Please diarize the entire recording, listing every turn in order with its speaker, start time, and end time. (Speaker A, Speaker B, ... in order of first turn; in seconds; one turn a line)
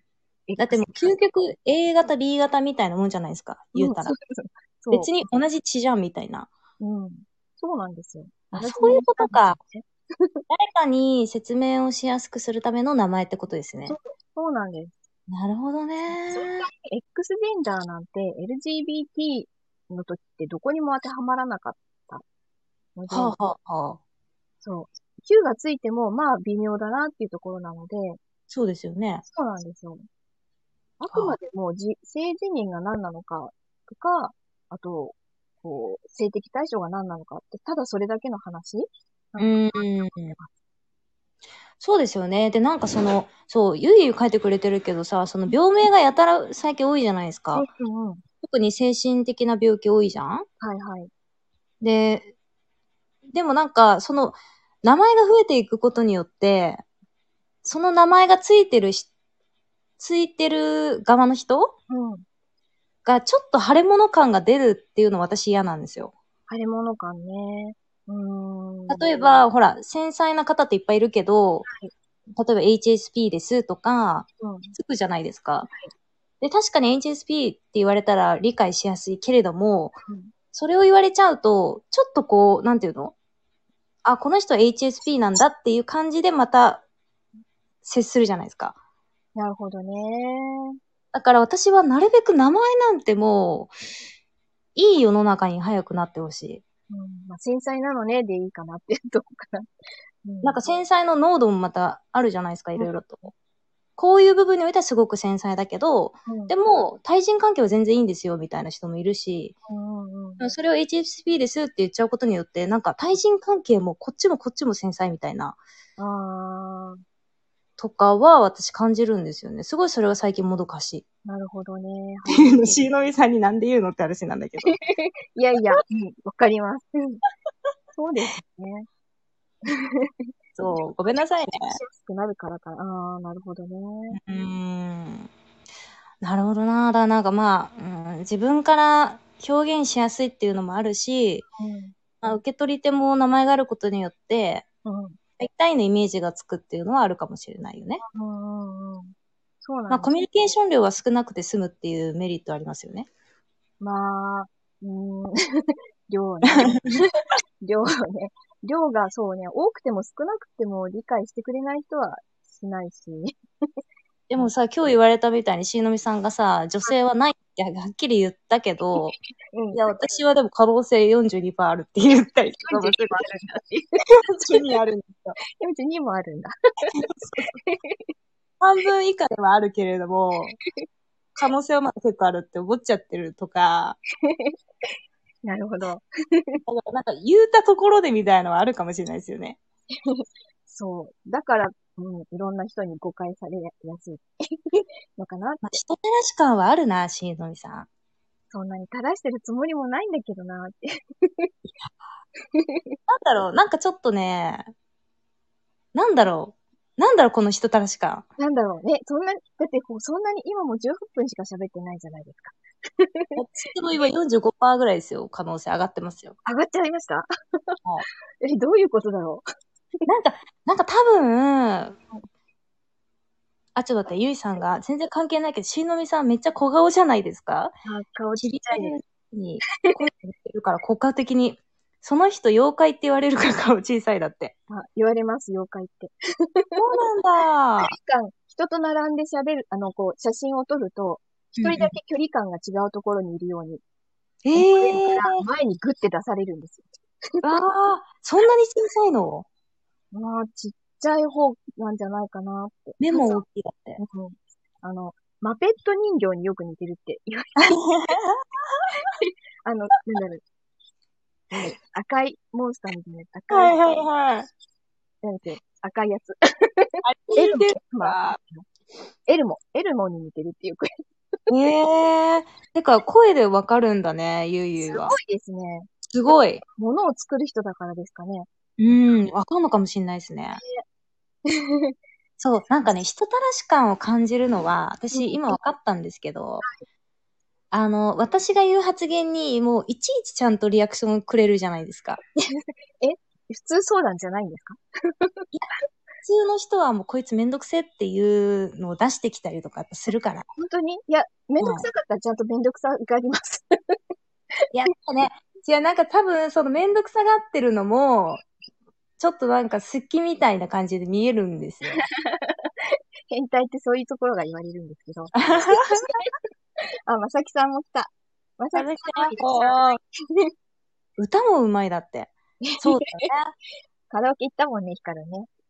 Speaker A: 0.5-1.1
Speaker B: 0.6-4.1
Speaker A: 3.7-5.1
Speaker B: 4.9-6.5
Speaker A: 6.8-10.4
Speaker B: 8.5-9.6
Speaker B: 10.5-14.0
Speaker A: 13.8-14.9
Speaker B: 15.3-16.7
Speaker A: 16.1-22.2
Speaker A: 22.9-23.3
Speaker B: 23.1-24.0
Speaker A: 24.6-28.2
Speaker B: 28.5-29.2
Speaker A: 29.3-30.0
Speaker A: 31.0-40.5
Speaker B: 31.1-31.4
Speaker B: 39.4-40.4
Speaker B: 41.8-47.6
Speaker A: 47.5-48.2
Speaker B: 48.4-50.5
Speaker A: 50.6-51.1
Speaker B: 51.8-52.3
Speaker B: 53.3-56.8
Speaker B: 57.6-59.1
Speaker B: 60.0-61.7
Speaker A: 61.9-62.2
Speaker B: 63.0-66.1
Speaker A: 66.5-69.4
Speaker B: 68.9-71.7
Speaker A: 71.7-71.9
Speaker B: 72.3-75.7
Speaker A: 74.4-74.7
Speaker B: 76.4-80.0
Speaker A: 80.0-80.3
Speaker B: 80.5-83.1
Speaker B: 84.0-86.8
Speaker B: 87.8-88.8
Speaker A: 89.3-90.8
Speaker B: 91.1-93.7
Speaker B: 94.8-96.6
Speaker A: 96.9-99.7
Speaker A: 100.2-100.6
Speaker B: 100.4-103.3
Speaker B: 104.0-109.5
Speaker A: 106.3-106.5
Speaker A: 109.7-110.4
Speaker B: 110.4-115.6
Speaker A: 116.0-117.0
Speaker B: 117.8-121.0
Speaker A: 121.2-123.0
Speaker B: 122.3-124.7
Speaker A: 124.6-127.2
Speaker A: 127.9-128.9
Speaker A: 129.7-130.1
Speaker B: 130.6-131.8
Speaker A: 131.6-134.2
Speaker B: 134.1-135.3
Speaker B: 136.2-141.4
Speaker A: 141.6-141.9
Speaker B: 142.2-144.6
Speaker A: 144.8-145.2
Speaker B: 145.4-148.0
Speaker A: 148.1-150.1
Speaker B: 149.9-153.1
Speaker A: 153.8-163.3
Speaker B: 156.5-157.0
Speaker B: 164.3-169.2
Speaker A: 169.5-169.9
Speaker B: 169.7-173.2
Speaker A: 172.6-174.7
Speaker B: 174.3-175.4
Speaker A: 175.6-176.9
Speaker B: 176.9-177.5
Speaker A: 177.5-178.1
Speaker B: 178.6-180.6
Speaker B: 181.4-184.0
Speaker A: 184.2-184.6
Speaker A: 185.4-186.6
Speaker B: 186.7-189.6
Speaker A: 189.9-195.8
Speaker B: 195.6-197.9
Speaker A: 198.5-201.5
Speaker A: 202.5-203.0
Speaker B: 203.1-204.7
Speaker B: 205.9-208.2
Speaker A: 208.4-213.4
Speaker B: 213.3-216.3
Speaker A: 216.4-217.8
Speaker A: 218.4-219.4
Speaker B: 220.1-222.0
Speaker B: 223.7-227.8
Speaker A: 227.8-229.0
Speaker B: 228.4-234.5
Speaker A: 234.7-236.8
Speaker B: 236.8-237.9
Speaker A: 237.8-243.8
Speaker B: 241.6-241.9
Speaker B: 244.4-245.4
Speaker A: 244.5-246.8
Speaker B: 247.4-249.4
Speaker A: 250.1-253.4
Speaker B: 253.0-254.0
Speaker A: 254.0-257.7
Speaker B: 257.6-259.0
Speaker A: 259.2-260.4
Speaker A: 261.6-263.8
Speaker B: 263.5-264.5
Speaker A: 265.2-268.6
Speaker B: 267.0-268.4
Speaker A: 269.3-270.9
Speaker B: 271.5-275.1
Speaker A: 274.8-275.9
Speaker B: 276.1-276.6
Speaker A: 276.8-278.5
Speaker B: 278.8-280.6
Speaker A: 280.6-280.8
Speaker A: 281.5-281.9
Speaker B: 282.4-286.6
Speaker A: 285.1-285.6
Speaker B: 287.7-292.2
Speaker A: 292.5-295.4
Speaker B: 296.2-300.5
Speaker A: 300.6-303.9
Speaker B: 301.6-301.9
Speaker B: 304.7-308.4
Speaker B: 309.2-312.0
Speaker A: 312.0-312.7
Speaker A: 313.3-316.3
Speaker B: 315.3-316.2
Speaker A: 317.1-320.5
Speaker B: 318.7-320.0
Speaker B: 321.2-323.5
Speaker A: 322.6-323.3
Speaker A: 324.1-325.5